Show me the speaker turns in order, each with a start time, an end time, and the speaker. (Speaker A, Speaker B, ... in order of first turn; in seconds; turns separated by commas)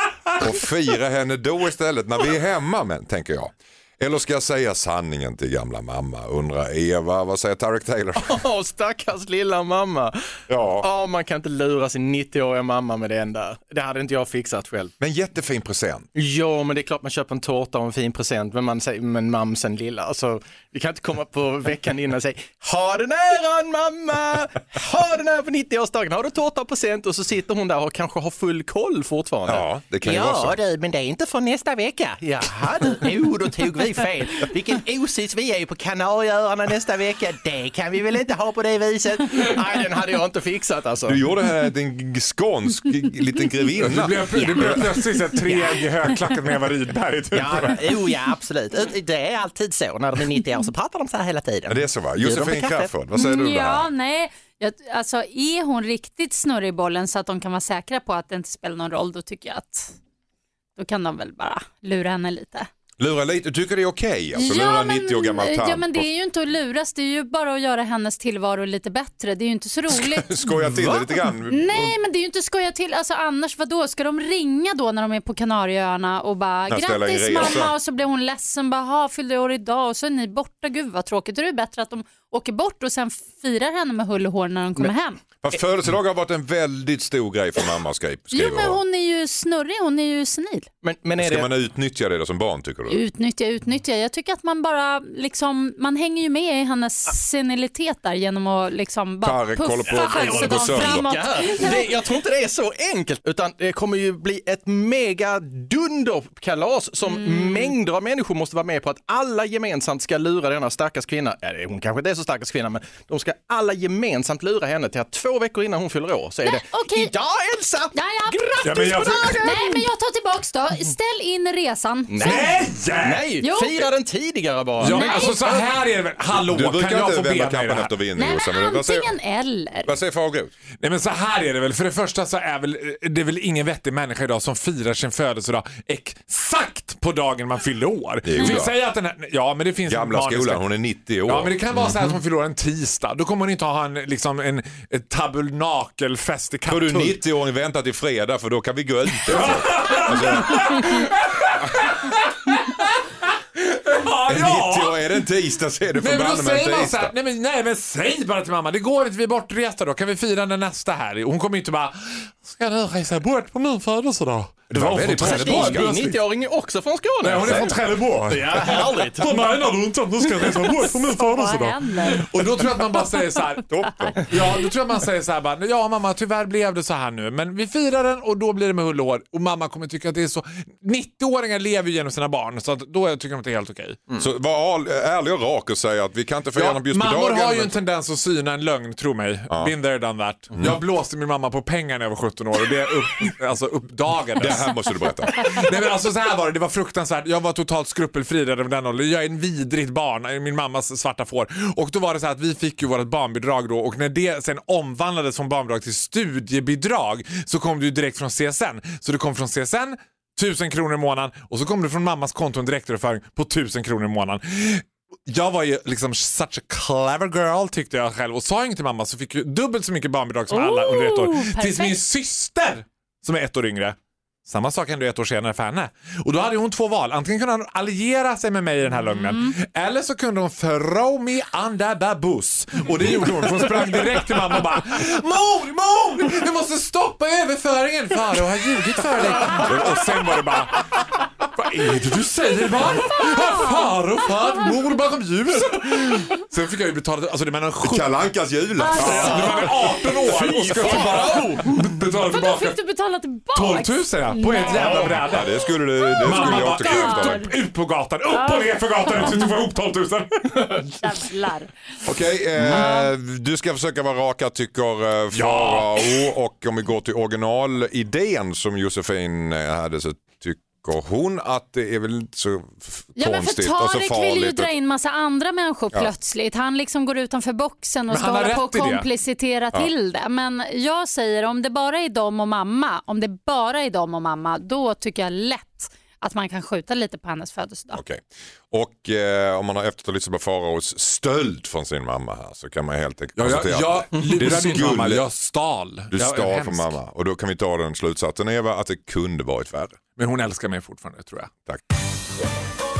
Speaker A: 0.3-8.4, Speaker B: 8.2-14.9, Speaker A: 10.5-10.9, Speaker A: 15.0-16.1, Speaker B: 16.1-41.2, Speaker A: 29.4-30.6, Speaker A: 41.0-44.8, Speaker C: 43.8-48.0, Speaker B: 44.3-45.8, Speaker B: 47.3-52.9, Speaker A: 51.7-53.9, Speaker D: 53.1-59.9, Speaker D: 60.8-62.7, Speaker A: 63.0-66.1, Speaker D: 64.3-85.2, Speaker A: 69.9-72.0, Speaker A: 76.7-77.7, Speaker A: 85.4-88.8, Speaker D: 88.3-90.7, Speaker B: 90.8-91.5, Speaker A: 91.2-93.0, Speaker D: 92.9-101.9, Speaker A: 99.2-101.1, Speaker B: 99.9-119.5, Speaker D: 107.0-107.7, Speaker D: 116.4-117.1, Speaker D: 117.9-122.5, Speaker C: 118.6-119.8, Speaker B: 122.1-125.7, Speaker C: 122.2-123.3, Speaker D: 123.4-123.9, Speaker C: 124.8-127.9, Speaker D: 124.8-125.4, Speaker A: 126.3-129.2, Speaker D: 128.2-129.9, Speaker A: 129.8-130.5, Speaker C: 130.8-140.6, Speaker A: 138.2-138.7, Speaker A: 139.8-142.1, Speaker C: 141.2-147.2, Speaker A: 146.7-151.1, Speaker C: 149.2-155.0, Speaker A: 154.3-157.1, Speaker C: 156.0-166.2, Speaker A: 164.7-166.1, Speaker B: 165.2-169.3, Speaker C: 167.2-184.0, Speaker A: 167.4-167.8, Speaker D: 170.8-172.3, Speaker A: 173.7-174.3, Speaker A: 184.2-187.8, Speaker C: 186.6-194.8, Speaker A: 194.4-195.5, Speaker C: 195.3-248.3, Speaker D: 220.5-222.0, Speaker D: 229.1-229.5, Speaker D: 242.9-244.7, Speaker A: 247.8-249.6, Speaker D: 248.8-249.7, Speaker B: 248.9-251.8, Speaker C: 248.9-252.8, Speaker D: 250.8-251.3, Speaker D: 252.3-255.1, Speaker C: 253.5-255.5, Speaker A: 254.7-257.4, Speaker D: 255.7-257.5, Speaker C: 256.2-260.9, Speaker D: 258.3-259.5, Speaker D: 261.0-261.7, Speaker A: 262.0-274.7, Speaker D: 262.7-263.1, Speaker C: 265.3-266.1, Speaker D: 273.1-288.0, Speaker C: 278.1-279.1, Speaker A: 287.9-295.2, Speaker C: 293.4-296.9, Speaker B: 294.1-294.8, Speaker A: 296.1-300.0, Speaker C: 300.2-301.5